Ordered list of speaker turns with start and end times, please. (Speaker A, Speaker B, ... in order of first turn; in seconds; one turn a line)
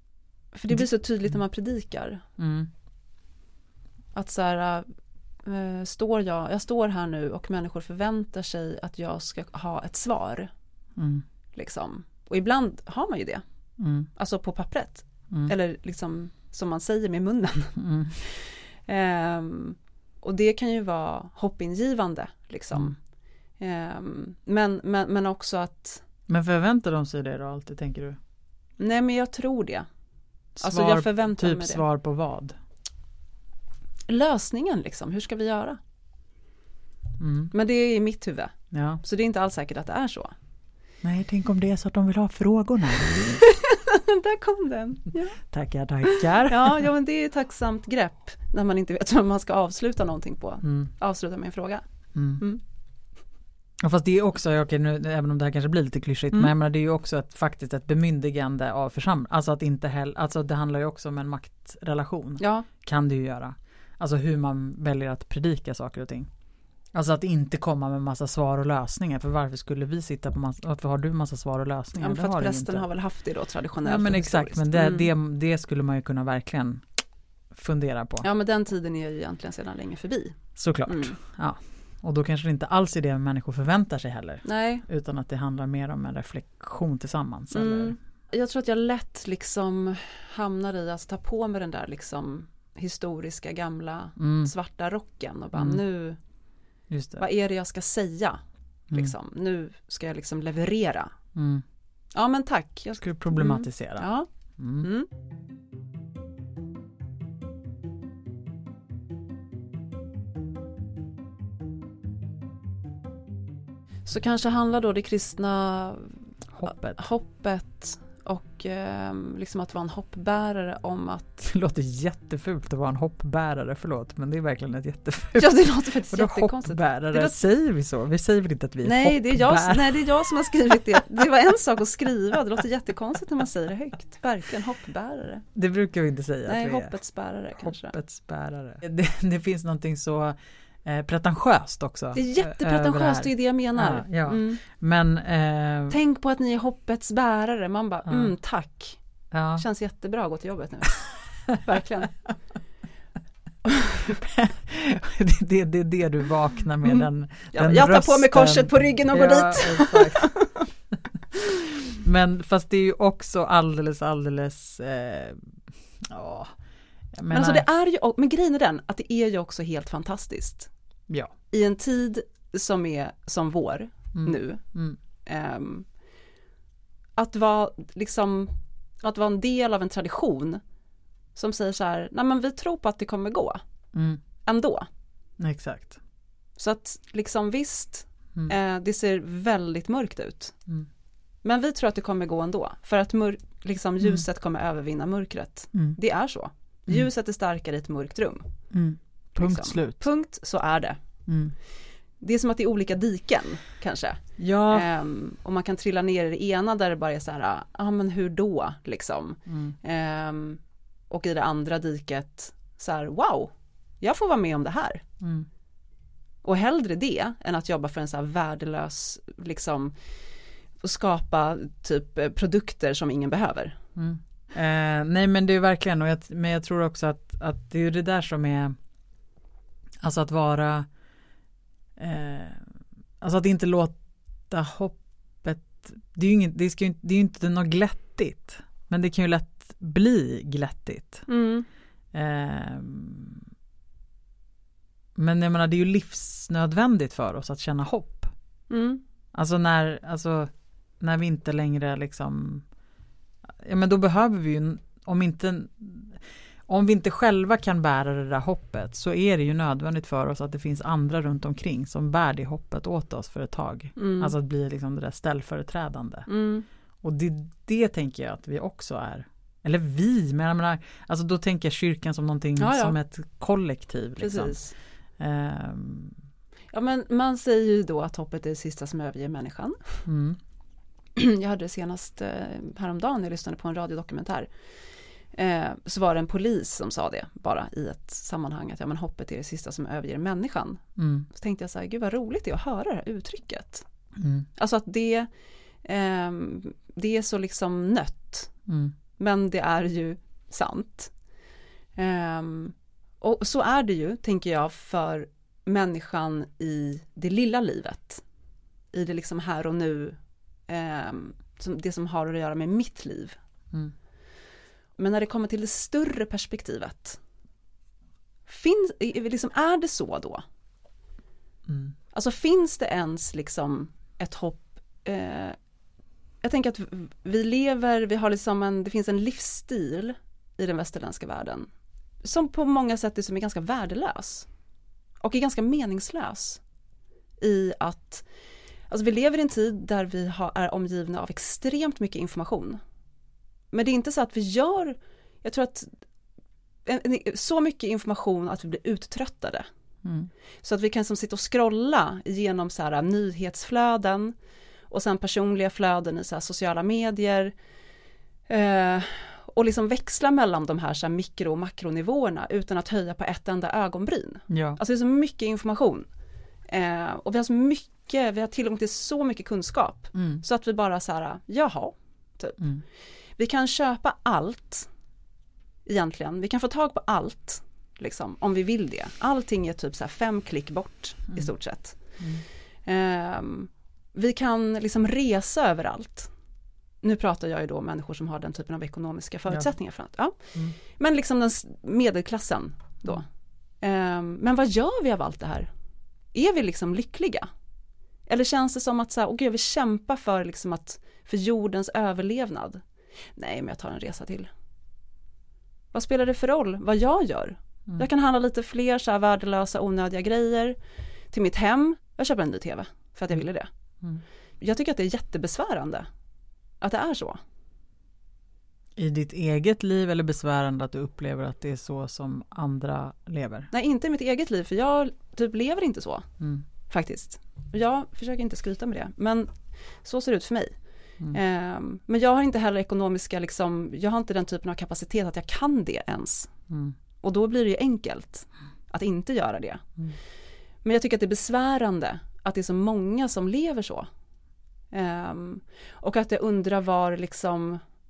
Speaker A: 0.5-2.2
Speaker B: 2.4-2.7
Speaker A: 4.1-4.9
Speaker A: 5.4-10.5
Speaker B: 11.0-11.2
Speaker A: 11.5-13.4
Speaker B: 13.8-14.1
Speaker A: 14.2-23.0
Speaker B: 17.8-18.2
Speaker A: 23.6-26.0
Speaker B: 26.3-28.2
Speaker A: 28.8-29.9
Speaker B: 30.6-32.6
Speaker A: 30.6-31.8
Speaker A: 34.1-35.8
Speaker B: 37.2-37.5
Speaker A: 37.5-40.3
Speaker B: 38.7-39.0
Speaker B: 41.0-43.5
Speaker A: 43.5-45.4
Speaker B: 45.4-46.9
Speaker A: 46.0-51.9
Speaker B: 50.6-50.9
Speaker B: 52.1-52.4
Speaker B: 53.8-66.3
Speaker A: 62.4-62.7
Speaker B: 66.9-72.9
Speaker A: 72.0-75.1
Speaker B: 73.8-76.8
Speaker B: 77.5-78.3
Speaker A: 78.2-81.2
Speaker B: 80.6-88.0
Speaker A: 84.5-84.8
Speaker A: 87.5-96.2
Speaker B: 94.2-94.5
Speaker B: 95.5-95.8
Speaker B: 96.9-97.2
Speaker A: 97.2-101.1
Speaker B: 101.3-101.6
Speaker A: 102.1-104.3
Speaker B: 103.0-104.1
Speaker B: 104.6-104.9
Speaker A: 104.8-105.1
Speaker A: 114.1-121.5
Speaker B: 116.5-117.0
Speaker B: 121.4-131.0
Speaker A: 125.4-127.4
Speaker A: 128.8-135.4
Speaker B: 135.6-137.0
Speaker A: 136.5-137.9
Speaker B: 137.6-146.0
Speaker A: 142.2-144.6
Speaker A: 145.9-149.0
Speaker B: 148.1-148.3
Speaker B: 149.3-149.7
Speaker A: 149.6-152.2
Speaker A: 153.7-154.1
Speaker B: 154.1-160.4
Speaker A: 156.8-160.7
Speaker B: 161.8-165.5
Speaker B: 166.1-166.5
Speaker B: 167.1-167.7
Speaker A: 167.3-170.7
Speaker A: 171.5-174.6
Speaker B: 174.2-175.0
Speaker A: 175.2-175.9
Speaker A: 177.2-180.6
Speaker A: 181.3-183.6
Speaker B: 183.9-184.2
Speaker A: 184.4-184.9
Speaker B: 185.4-186.0
Speaker A: 186.6-190.6
Speaker A: 191.4-198.5
Speaker B: 198.7-200.1
Speaker A: 199.3-201.0
Speaker B: 201.3-201.5
Speaker A: 202.2-215.0
Speaker B: 204.4-204.9
Speaker B: 209.5-209.8
Speaker B: 215.2-215.5
Speaker A: 216.4-220.0
Speaker A: 220.8-223.8
Speaker B: 224.0-228.8
Speaker B: 230.0-230.9
Speaker B: 232.0-232.7
Speaker B: 233.2-241.3
Speaker A: 241.3-241.7
Speaker B: 242.1-243.4
Speaker B: 245.2-248.3
Speaker A: 248.7-249.0
Speaker B: 249.3-252.7
Speaker B: 253.6-266.3
Speaker A: 264.0-264.3
Speaker A: 266.3-266.7
Speaker B: 267.0-274.6
Speaker A: 272.6-272.9
Speaker A: 274.2-274.7
Speaker B: 275.2-276.2
Speaker A: 276.7-280.0
Speaker B: 280.1-280.4
Speaker A: 281.1-284.5
Speaker A: 285.3-293.9
Speaker B: 291.0-291.3
Speaker B: 294.2-294.5
Speaker A: 294.6-295.3
Speaker A: 295.8-298.5
Speaker B: 298.7-298.9
Speaker A: 299.2-301.1
Speaker A: 302.0-308.2
Speaker A: 308.9-313.4
Speaker A: 315.0-317.2
Speaker A: 318.5-320.4
Speaker B: 321.7-321.9
Speaker A: 322.1-325.6
Speaker A: 326.4-331.7
Speaker A: 332.2-334.5
Speaker A: 335.2-336.6
Speaker A: 337.4-338.3
Speaker A: 338.9-342.8
Speaker A: 343.7-345.9
Speaker A: 346.9-349.7
Speaker B: 350.0-350.3
Speaker A: 350.6-354.4
Speaker A: 354.9-357.5
Speaker A: 358.5-366.1
Speaker B: 364.5-364.8
Speaker A: 366.7-372.6
Speaker B: 370.1-370.4
Speaker A: 373.4-374.9
Speaker A: 375.9-382.0
Speaker B: 382.2-382.4
Speaker A: 382.9-386.3
Speaker A: 387.0-393.3
Speaker A: 393.8-395.7
Speaker A: 396.3-397.5
Speaker A: 398.3-402.8
Speaker A: 403.4-404.5
Speaker A: 405.9-410.8
Speaker A: 411.3-413.7
Speaker A: 414.6-416.1
Speaker A: 416.8-417.4
Speaker B: 419.0-423.7
Speaker A: 423.7-426.3
Speaker A: 426.9-430.8
Speaker A: 431.3-436.5
Speaker B: 436.7-436.9
Speaker A: 437.2-439.9
Speaker A: 440.8-444.1
Speaker A: 444.9-447.8